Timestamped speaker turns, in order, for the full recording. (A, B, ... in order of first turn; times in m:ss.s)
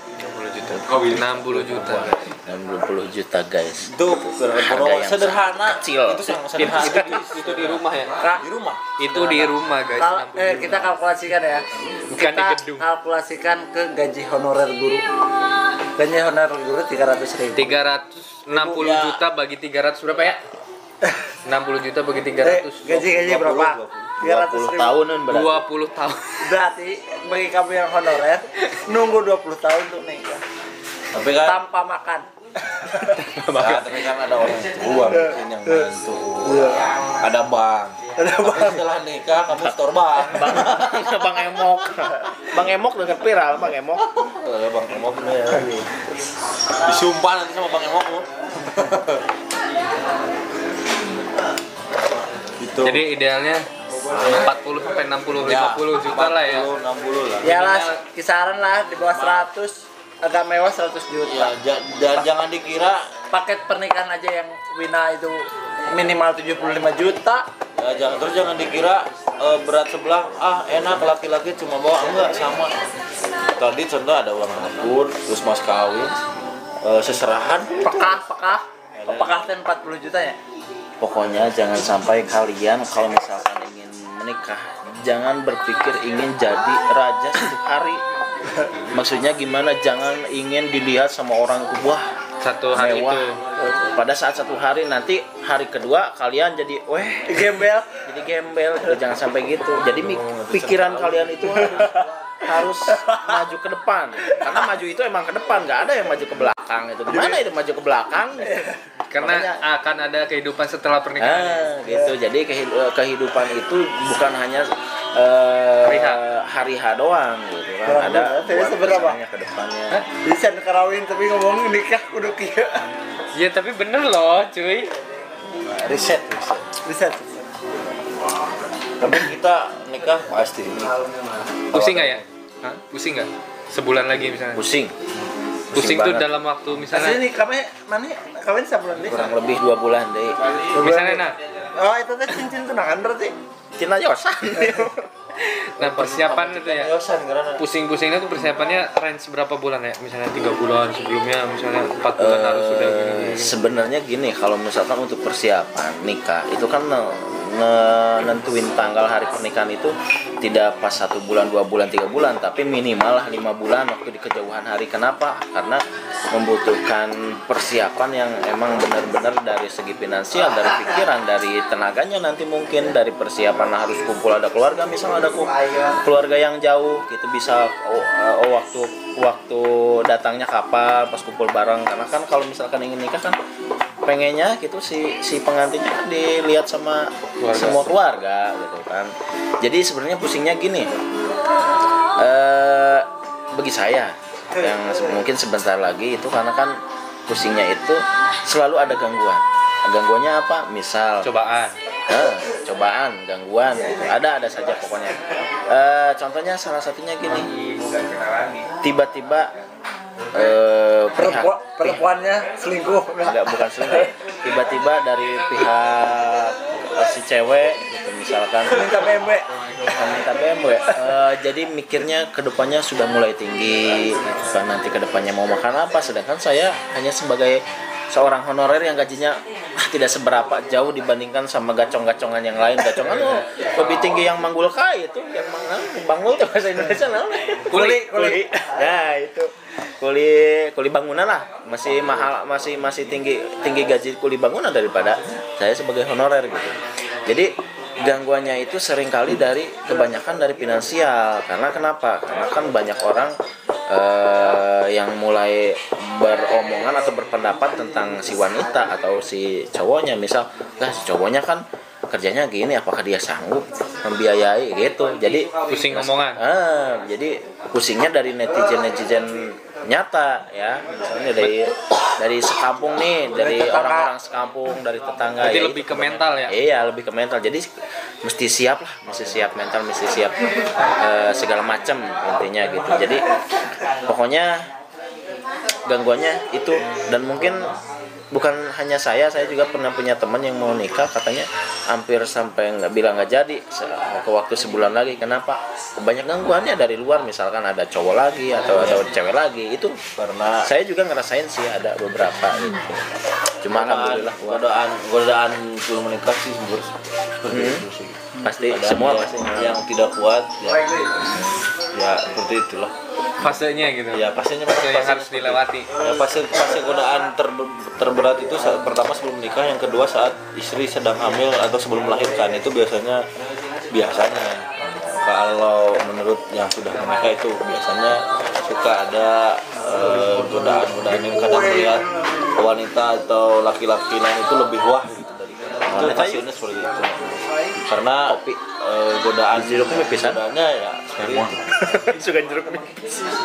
0:00.2-0:02.2 A
0:01.5-0:02.1 B
0:02.4-0:03.9 C
0:03.8-0:07.8 B
0:04.6-0:06.4 C
0:06.6-0:08.2 A
0:08.2-0:08.4 D
0:08.4-0:09.4 B
0:09.0-0:10.9 A
0:10.0-0:15.0 D
0:12.1-0:12.8 A
0:16.0-0:17.8 D
0:17.5-0:20.4 A
0:18.6-0:19.2 B
0:21.4-0:23.0 A
0:22.4-0:24.9 D
0:22.8-0:24.1 B
0:24.2-0:25.6 C
0:25.3-0:26.4 A
0:26.4-0:30.4 D
0:31.1-0:31.6 B
0:31.4-0:33.2 D
0:33.1-0:33.9 A
0:33.6-0:41.3 B
0:36.4-0:36.9 D
0:38.2-0:38.8 D
0:40.3-0:44.1 C
0:44.1-0:45.9 B
0:46.8-0:49.2 B
0:52.6-0:53.0 B
0:52.8-0:53.6 A
0:54.1-0:54.5 B
0:54.3-0:56.7 A
0:55.4-0:57.6 B
0:57.4-1:01.5 D
0:57.4-0:57.9 A
0:59.0-0:59.5 B
1:01.2-1:03.0 B
1:03.3-1:07.5 D
1:07.8-1:12.7 B
1:13.6-1:16.2 B
1:16.8-1:17.7 B
1:17.8-1:20.4 D
1:19.0-1:19.4 B
1:21.0-1:28.0 C
1:28.9-1:32.0 C
1:32.4-1:33.4 A
1:32.7-1:33.2 C
1:33.8-1:37.4 C
1:37.3-1:37.9 D
1:38.0-1:41.9 C
1:39.8-1:41.7 B
1:42.4-1:48.6 C
1:42.5-1:43.2 D
1:47.1-1:47.4 D
1:49.1-1:51.7 A
1:49.2-1:49.6 C
1:51.2-2:00.0 C
1:51.9-1:52.1 D
1:55.8-1:56.2 A
1:57.8-1:59.2 D
2:00.2-2:02.8 D
2:03.3-2:04.9 A
2:05.6-2:06.6 B
2:06.8-2:07.4 D
2:09.0-2:10.9 B
2:11.7-2:12.2 B
2:11.7-2:14.6 A
2:14.5-2:14.9 C
2:15.7-2:16.2 C
2:15.7-2:17.2 A
2:16.9-2:19.3 D
2:19.0-2:20.4 C
2:20.7-2:23.3 D
2:20.7-2:21.4 A
2:23.8-2:25.1 C
2:25.4-2:26.9 A
2:25.8-2:27.6 B
2:27.6-2:33.6 A
2:32.2-2:45.8 C
2:46.3-3:03.4 C
3:04.0-3:09.1 C
3:07.4-3:07.8 A
3:09.6-3:10.9 C
3:12.2-3:16.8 C
3:17.3-3:21.3 C
3:21.2-3:21.7 A
3:22.1-3:27.5 C
3:28.8-3:29.5 C
3:30.3-3:32.0 C
3:31.2-3:34.1 D
3:33.2-3:39.2 C
3:38.7-3:39.5 D
3:39.9-4:13.4 C
3:57.7-3:58.1 A
3:57.7-3:58.7 D
4:13.9-4:37.7 C
4:25.5-4:26.4 A
4:33.3-4:34.1 D
4:35.4-4:36.6 A
4:38.2-4:40.4 C
4:41.0-4:43.2 C
4:44.0-4:44.6 C
4:45.8-4:47.7 C
4:48.3-5:00.0 C
4:58.7-4:59.0 B
5:00.2-5:00.7 B
5:00.6-5:03.0 C
5:03.6-5:04.6 C
5:03.7-5:10.8 B
5:07.5-5:07.8 C
5:08.4-5:09.8 C
5:11.9-5:12.9 B
5:13.4-5:15.9 A
5:14.1-5:23.2 B
5:23.9-5:24.7 B
5:25.2-5:41.6 B
5:35.9-5:36.4 C
5:38.2-5:38.6 C
5:39.5-5:40.4 C
5:41.8-5:43.3 C